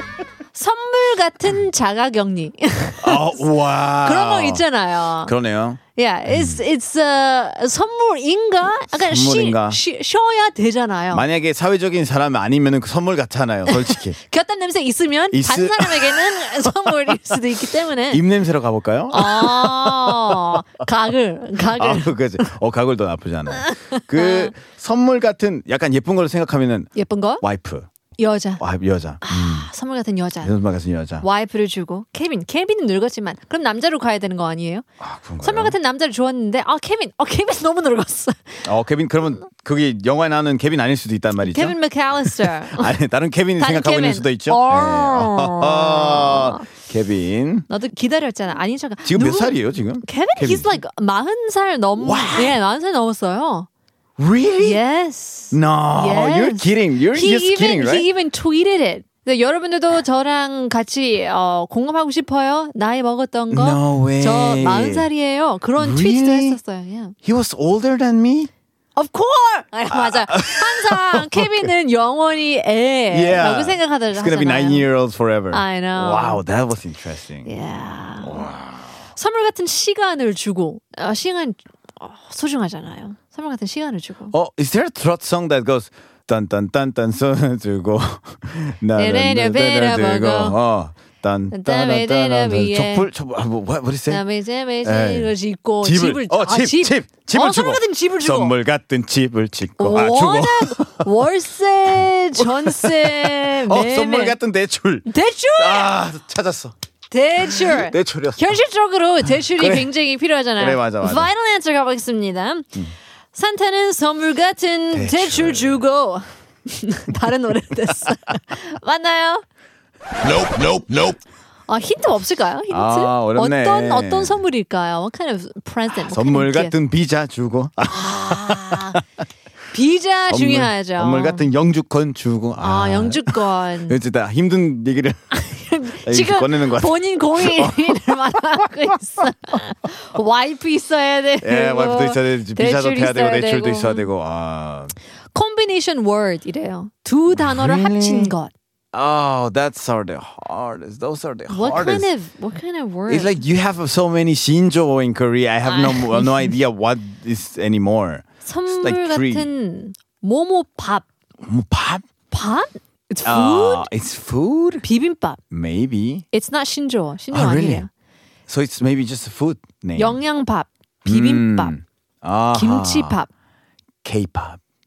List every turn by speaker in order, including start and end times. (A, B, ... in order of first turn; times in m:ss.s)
0:00.5-0:03.4 A
0:03.0-0:06.6 B
0:04.0-0:05.3 A
0:06.0-0:11.2 A
0:08.7-0:09.8 B
0:11.1-0:14.2 B
0:13.7-0:18.2 A
0:15.3-0:17.4 B
0:18.1-0:20.6 B
0:19.1-0:22.1 A
0:21.6-0:27.9 B
0:23.5-0:24.5 A
0:26.9-0:27.4 A
0:28.2-0:28.6 A
0:28.6-0:29.7 B
0:29.2-0:30.5 A
0:30.4-0:31.2 B
0:31.2-0:34.8 A
0:35.0-0:35.8 B
0:35.4-0:38.6 A
0:38.6-0:47.7 B
0:41.4-0:42.9 A
0:43.6-0:46.6 A
0:47.7-0:53.7 A
0:49.0-0:50.8 B
0:52.0-0:52.6 B
0:54.2-0:54.8 B
0:54.6-1:07.1 A
0:55.5-0:58.1 B
1:03.5-1:05.1 B
1:05.8-1:06.6 B
1:07.2-1:08.5 B
1:08.9-1:14.9 A
1:09.9-1:11.7 B
1:13.1-1:17.5 B
1:15.5-1:16.4 A
1:17.4-1:18.5 A
1:18.2-1:18.9 B
1:19.1-1:24.3 A
1:24.3-1:34.2 B
1:28.9-1:30.6 A
1:31.5-1:33.1 A
1:34.1-1:38.5 A
1:34.8-1:41.3 B
1:39.8-1:44.4 A
1:42.4-1:46.7 B
1:45.0-1:45.9 A
1:47.1-1:52.7 A
1:47.4-1:48.6 B
1:49.3-1:49.9 B
1:50.6-1:51.3 B
1:53.3-1:59.4 A
1:54.9-1:55.8 B
2:00.2-2:01.2 B
2:01.7-2:06.7 A
2:02.7-2:04.4 B
2:05.9-2:09.0 B
2:07.9-2:09.0 A
2:09.7-2:11.5 A
2:10.3-2:15.3 B
2:12.6-2:14.0 A
2:15.3-2:24.1 A
2:15.9-2:18.7 B
2:21.4-2:24.9 B
2:25.3-2:28.5 A
2:27.3-2:28.4 B
2:28.9-2:32.1 B
2:31.5-2:33.4 A
2:33.1-2:39.5 B
2:35.6-2:36.5 A
2:38.4-2:41.0 A
2:41.4-2:42.0 B
2:42.3-2:43.8 A
2:43.2-2:44.9 B
2:44.8-2:45.4 A
2:45.5-2:46.2 B
2:46.3-2:47.9 A
2:47.3-2:47.8 B
2:48.5-2:50.2 B
2:50.0-2:51.7 A
2:51.0-2:53.2 B
2:52.5-2:53.3 A
2:54.0-2:54.6 B